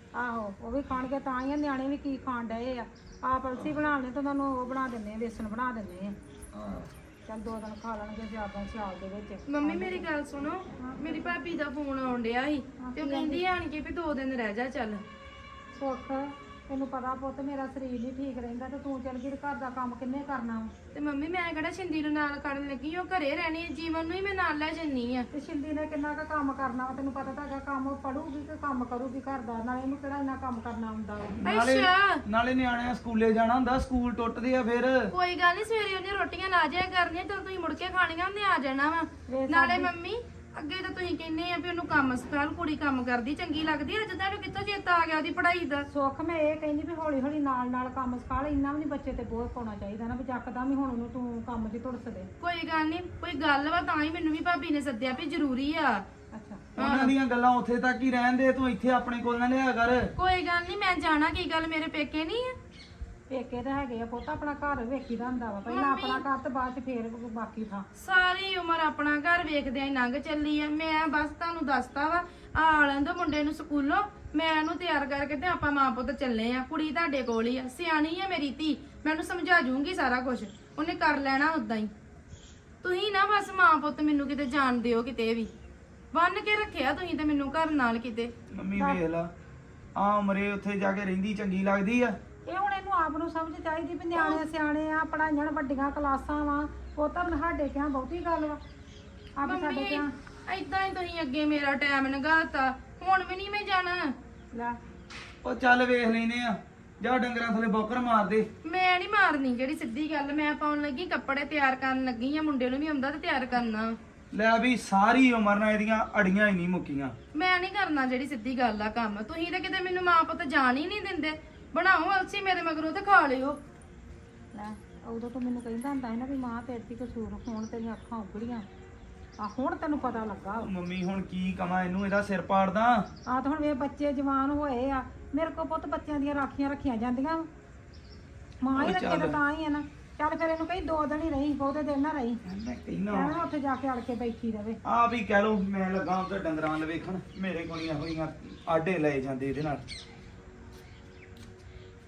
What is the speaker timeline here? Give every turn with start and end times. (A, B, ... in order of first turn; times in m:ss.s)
0:00.2-0:06.2 A
0:06.5-0:06.9 B
0:07.3-0:10.1 A
0:09.5-0:15.0 C
0:10.8-0:11.3 A
0:12.8-0:13.4 A
0:15.8-0:20.7 A
0:20.9-0:25.3 C
0:25.3-0:31.4 A
0:31.4-0:35.1 B
0:31.4-0:32.2 C
0:35.1-0:45.8 C
0:39.3-0:39.9 A
0:45.9-0:52.3 A
0:52.4-0:56.0 C
0:56.3-0:56.6 A
0:56.8-1:00.1 B
0:56.8-0:57.1 C
1:00.2-1:02.6 C
1:03.3-1:07.9 A
1:05.7-1:06.2 C
1:08.0-1:21.9 C
1:22.8-1:25.5 C
1:26.1-1:28.3 C
1:28.5-1:29.3 B
1:28.8-1:29.0 A
1:30.0-1:32.2 B
1:32.5-1:38.6 A
1:39.4-1:40.1 A
1:39.4-1:44.1 C
1:45.4-1:48.5 B
1:48.6-1:54.0 C
1:54.3-1:57.1 B
1:57.3-2:03.6 C
2:04.5-2:08.7 A
2:09.4-2:10.7 A
2:10.6-2:13.1 B
2:13.3-2:17.5 A
2:18.6-2:22.4 A
2:18.8-2:19.4 B
2:22.4-2:23.4 B
2:23.1-2:24.8 A
2:24.8-2:29.8 B